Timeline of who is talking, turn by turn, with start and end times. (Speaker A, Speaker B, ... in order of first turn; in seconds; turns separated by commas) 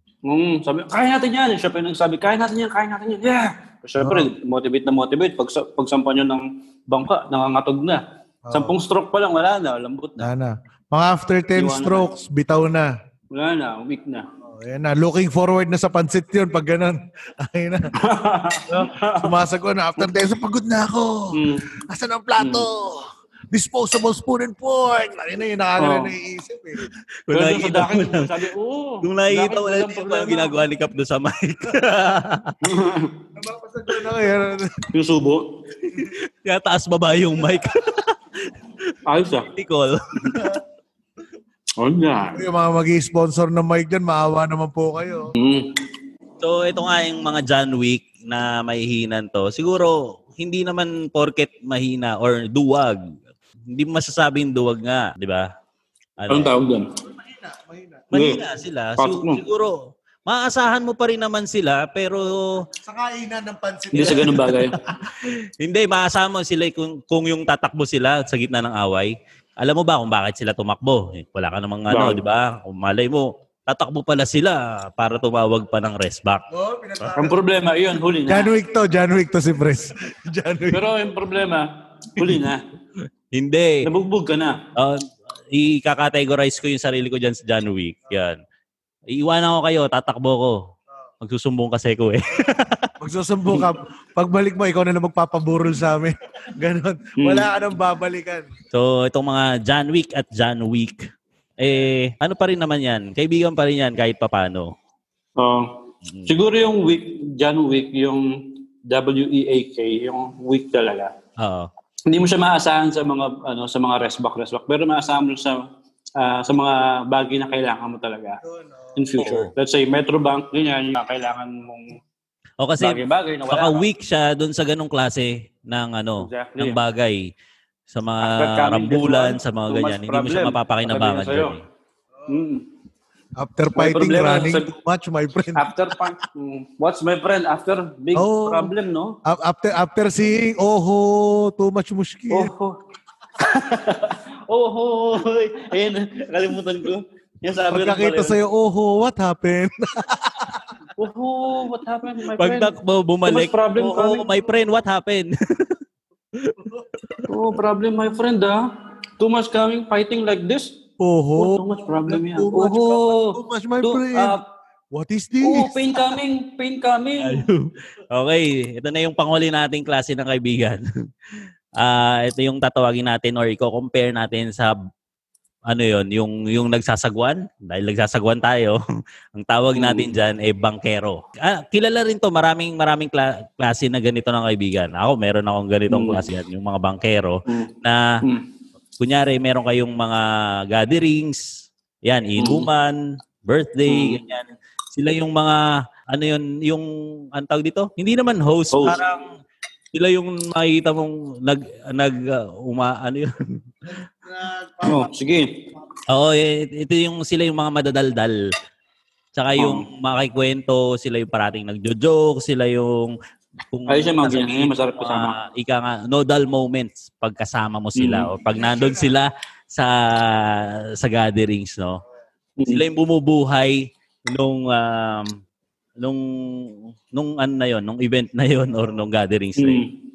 Speaker A: 0.2-10.3, Speaker B: 4.0-4.3, Speaker B: 8.4-8.8, Speaker B: 10.2-12.9, Speaker A: 11.5-12.1, Speaker A: 13.3-14.2, Speaker B: 14.5-17.9, Speaker A: 18.0-19.4, Speaker B: 18.7-26.8, Speaker A: 21.3-21.7, Speaker A: 22.4-22.7, Speaker A: 25.8-26.1, Speaker C: 27.3-28.5, Speaker A: 27.3-30.6, Speaker C: 29.0-32.6, Speaker A: 32.6-33.1, Speaker B: 33.3-34.9, Speaker A: 34.9-35.5, Speaker C: 35.8-38.1, Speaker A: 39.0-39.5, Speaker C: 39.5-40.5, Speaker B: 40.2-40.6, Speaker A: 41.8-42.4, Speaker B: 42.3-45.3, Speaker A: 45.4-45.7, Speaker C: 46.4-53.0, Speaker C: 53.7-55.5, Speaker C: 56.2-56.5, Speaker A: 56.3-56.9, Speaker B: 57.1-58.1, Speaker C: 58.1-62.6, Speaker A: 58.1-58.4, Speaker A: 59.0-59.4, Speaker B: 62.8-64.7, Speaker A: 63.9-64.8, Speaker C: 65.0-76.4, Speaker A: 71.9-72.2, Speaker B: 76.5-77.4, Speaker A: 77.1-78.5, Speaker B: 78.3-80.9, Speaker A: 80.7-82.6, Speaker C: 83.3-83.8, Speaker A: 83.8-84.6, Speaker C: 84.8-88.4, Speaker C: 89.1-90.6, Speaker C: 91.2-92.9, Speaker B: 93.0-98.5, Speaker A: 97.2-97.5, Speaker C: 98.7-101.1, Speaker C: 101.6-104.7, Speaker A: 105.4-111.1, Speaker C: 106.1-106.3, Speaker C: 111.4-111.7, Speaker A: 112.1-115.6, Speaker A: 116.2-118.4, Speaker B: 118.4-119.0, Speaker A: 119.0-122.0, Speaker C: 119.2-119.5, Speaker C: 122.6-127.3, Speaker A: 122.8-123.8, Speaker A: 126.2-126.8, Speaker C: 127.9-131.6, Speaker A: 128.2-131.5, Speaker A: 132.3-132.6, Speaker B: 133.4-135.7, Speaker A: 133.8-134.7, Speaker A: 135.5-139.2, Speaker B: 138.1-138.7, Speaker B: 139.2-142.5, Speaker A: 142.3-142.8, Speaker A: 143.4-148.4, Speaker B: 147.7-150.7, Speaker A: 151.0-152.7, Speaker C: 152.3-155.7, Speaker A: 153.2-154.3, Speaker C: 156.4-157.3, Speaker A: 157.3-158.7, Speaker A: 159.2-160.7, Speaker B: 161.0-164.4, Speaker A: 161.4-164.4, Speaker B: 164.9-166.2, Speaker A: 165.4-167.5, Speaker C: 167.2-170.8, Speaker C: 171.8-174.7, Speaker C: 175.7-178.8, Speaker C: 179.3-188.2, Speaker A: 179.7-180.1, Speaker A: 185.9-186.2, Speaker C: 189.0-199.3, Speaker A: 192.4-192.7, Speaker A: 193.9-194.2, Speaker A: 198.7-199.0, Speaker C: 199.9-203.3, Speaker B: 204.2-205.2, Speaker A: 204.8-205.6, Speaker C: 206.1-208.4, Speaker C: 209.3-213.2, Speaker A: 209.6-209.8, Speaker C: 213.7-222.0, Speaker A: 213.9-215.3, Speaker A: 217.9-218.3, Speaker B: 218.6-219.1, Speaker A: 222.6-222.8, Speaker C: 222.6-225.4, Speaker C: 226.0-229.8, Speaker A: 229.6-229.9